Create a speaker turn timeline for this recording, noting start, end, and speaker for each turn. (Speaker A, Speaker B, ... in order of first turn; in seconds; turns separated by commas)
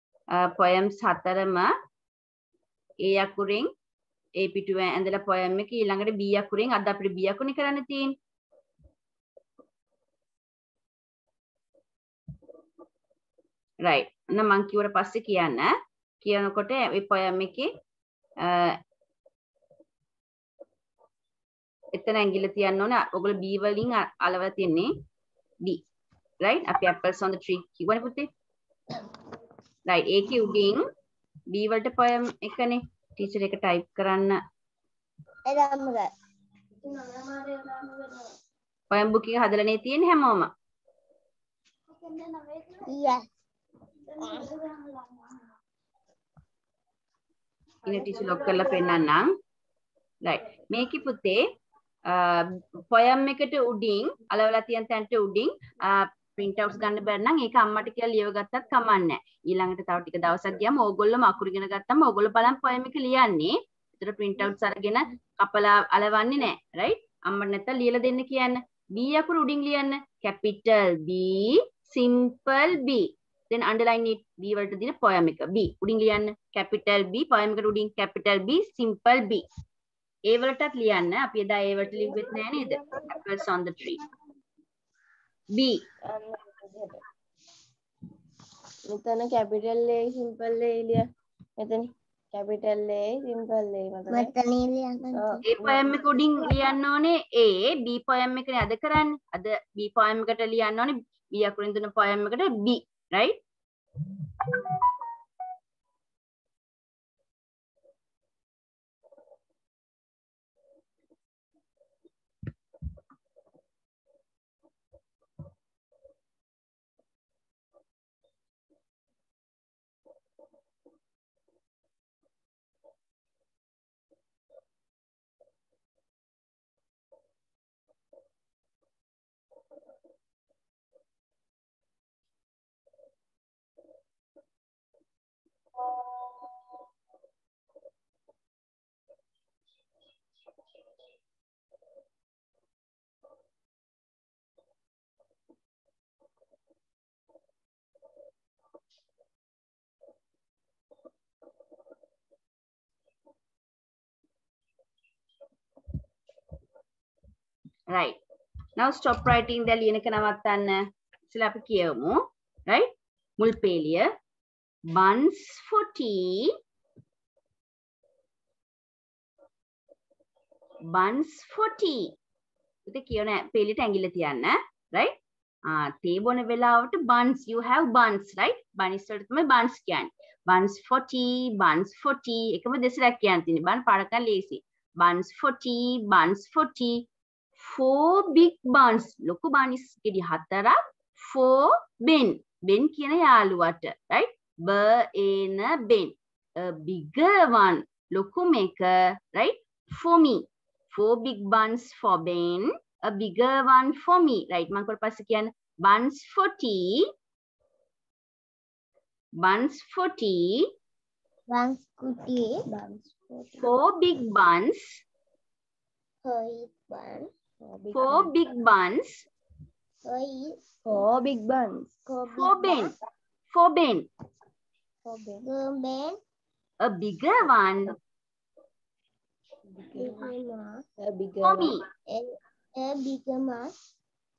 Speaker A: 0.3-1.7, Speaker A: 3.1-3.7, Speaker A: 4.4-8.1, Speaker A: 13.8-17.7, Speaker A: 18.4-18.8, Speaker A: 21.9-24.9, Speaker A: 26.4-28.3, Speaker A: 29.9-30.9, Speaker A: 31.5-34.4, Speaker B: 35.5-36.1, Speaker C: 36.8-38.3, Speaker A: 38.9-40.5, Speaker C: 42.0-42.9, Speaker B: 42.9-43.2, Speaker C: 44.1-45.3, Speaker B: 44.2-44.5, Speaker C: 47.9-49.0, Speaker A: 47.9-49.3, Speaker A: 50.2-51.4, Speaker A: 52.1-79.5, Speaker A: 80.3-84.0, Speaker C: 81.9-83.2, Speaker A: 85.5-85.8, Speaker C: 86.1-87.0, Speaker C: 88.9-91.0, Speaker C: 91.6-94.3, Speaker B: 94.1-95.4, Speaker C: 95.1-96.5, Speaker A: 95.5-103.4, Speaker A: 157.9-158.2, Speaker A: 158.8-164.1, Speaker A: 164.9-166.6, Speaker A: 170.9-172.1, Speaker A: 172.9-175.2, Speaker A: 175.7-187.0, Speaker A: 187.6-207.1, Speaker A: 209.4-210.7, Speaker B: 211.5-212.6, Speaker C: 212.7-213.7, Speaker A: 213.6-215.0, Speaker B: 216.2-217.3, Speaker C: 217.6-218.4, Speaker A: 217.9-219.3, Speaker B: 220.1-220.6, Speaker C: 220.9-221.9, Speaker B: 222.1-222.9, Speaker A: 222.3-222.9, Speaker A: 223.5-224.1, Speaker C: 225.1-225.4, Speaker B: 225.4-226.2, Speaker A: 226.8-227.9, Speaker C: 229.7-230.3, Speaker B: 229.9-230.8, Speaker C: 231.0-231.8, Speaker A: 231.4-231.8, Speaker B: 232.1-233.7